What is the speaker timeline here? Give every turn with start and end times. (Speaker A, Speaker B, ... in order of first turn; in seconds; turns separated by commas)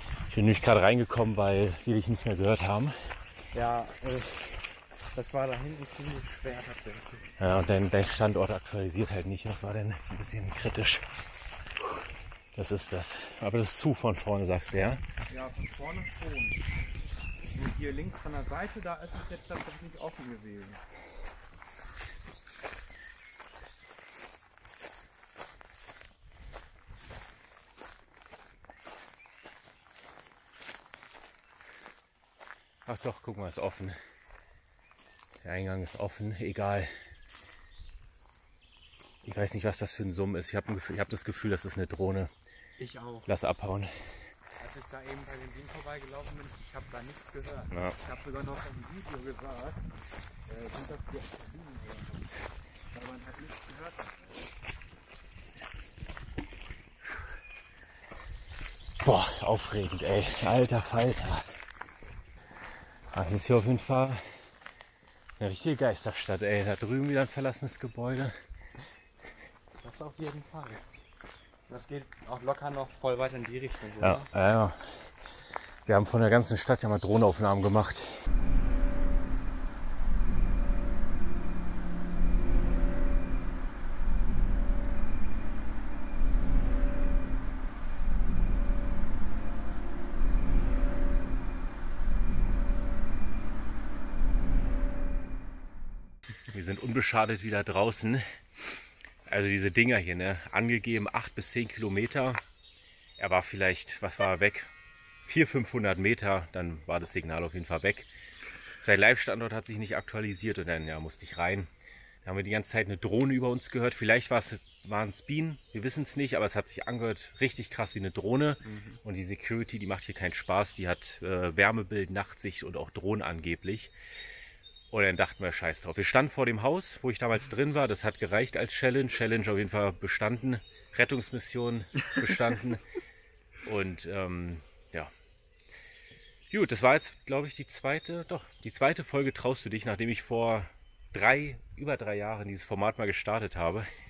Speaker A: 0.3-3.0, Speaker B: 3.5-7.3, Speaker A: 7.4-11.1, Speaker A: 12.5-15.0, Speaker B: 15.3-16.6, Speaker B: 17.5-20.8, Speaker A: 32.9-34.0, Speaker A: 35.4-36.9, Speaker A: 39.2-42.3, Speaker B: 42.8-43.3, Speaker A: 43.3-43.9, Speaker B: 44.6-49.9, Speaker A: 47.7-48.0, Speaker B: 50.5-52.3, Speaker B: 52.9-54.4, Speaker A: 59.0-61.5, Speaker A: 63.1-64.4, Speaker A: 65.4-68.3, Speaker B: 69.8-70.8, Speaker B: 71.7-74.3, Speaker A: 74.0-74.8, Speaker A: 75.9-78.1, Speaker A: 96.5-98.2, Speaker A: 99.3-102.4, Speaker A: 103.2-104.7, Speaker A: 105.2-108.1, Speaker A: 108.8-111.7, Speaker A: 112.2-123.9, Speaker B: 118.7-119.0, Speaker A: 124.9-132.8, Speaker A: 133.6-135.1, Speaker A: 136.5-143.9